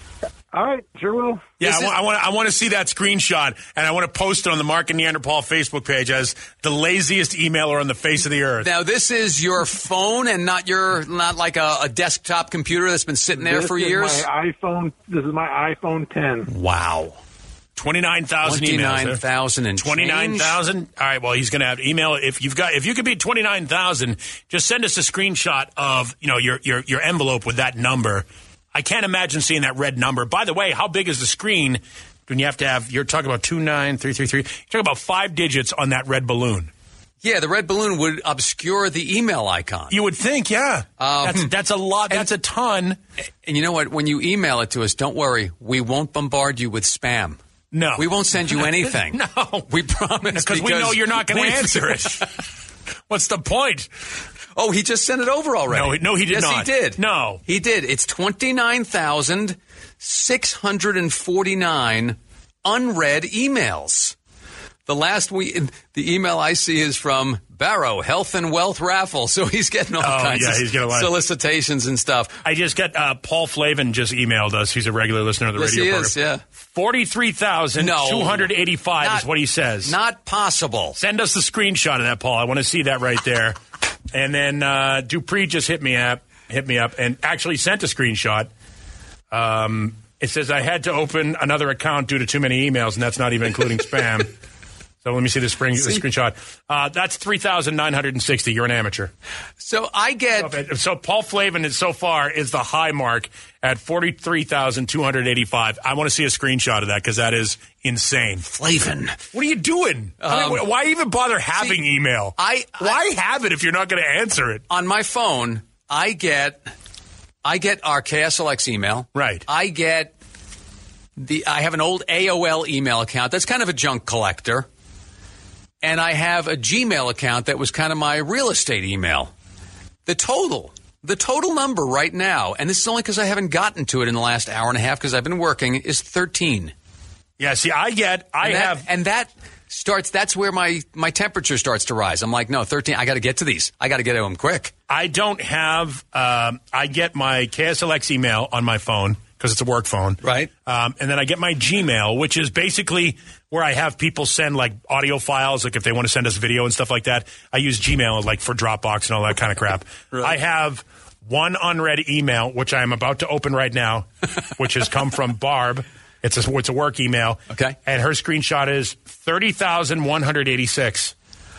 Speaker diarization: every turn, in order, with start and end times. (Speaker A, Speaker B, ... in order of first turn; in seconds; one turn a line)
Speaker A: 0.6-1.4
Speaker B: 1.6-8.7
Speaker C: 1.6-1.9
Speaker C: 8.6-14.2
Speaker A: 13.5-16.5
Speaker C: 16.5-17.2
Speaker B: 17.8-19.2
Speaker C: 18.4-20.6
Speaker B: 19.8-36.7
Speaker C: 37.2-40.0
Speaker B: 39.9-43.0
Speaker C: 41.0-41.5
Speaker C: 43.4-47.4
Speaker B: 47.7-49.7
Speaker C: 48.0-52.2
Speaker B: 50.3-52.2
Speaker B: 53.1-53.9
Speaker C: 54.5-64.2
Speaker B: 55.7-57.4
Speaker C: 64.8-72.4
Speaker B: 70.0-71.1
Speaker B: 72.4-76.1
Speaker C: 75.5-76.4
Speaker B: 76.7-80.0
Speaker C: 77.8-79.3
Speaker C: 79.8-81.0
Speaker B: 81.0-83.6
Speaker B: 84.1-88.5
Speaker B: 89.3-94.3
Speaker B: 95.0-99.1
Speaker C: 99.6-100.6
Speaker B: 100.4-108.4
Speaker C: 108.5-109.2
Speaker B: 109.3-114.6
Speaker C: 110.2-110.7
Speaker C: 111.5-111.8
Speaker C: 112.4-113.0
Speaker C: 114.7-116.7
Speaker C: 117.4-120.1
Speaker B: 119.1-119.4
Speaker C: 121.2-124.7
Speaker C: 125.8-129.3
Speaker C: 130.1-136.7
Speaker B: 137.4-138.8
Speaker C: 138.4-144.7
Speaker B: 144.9-171.1
Speaker C: 150.2-150.5
Speaker C: 167.5-167.8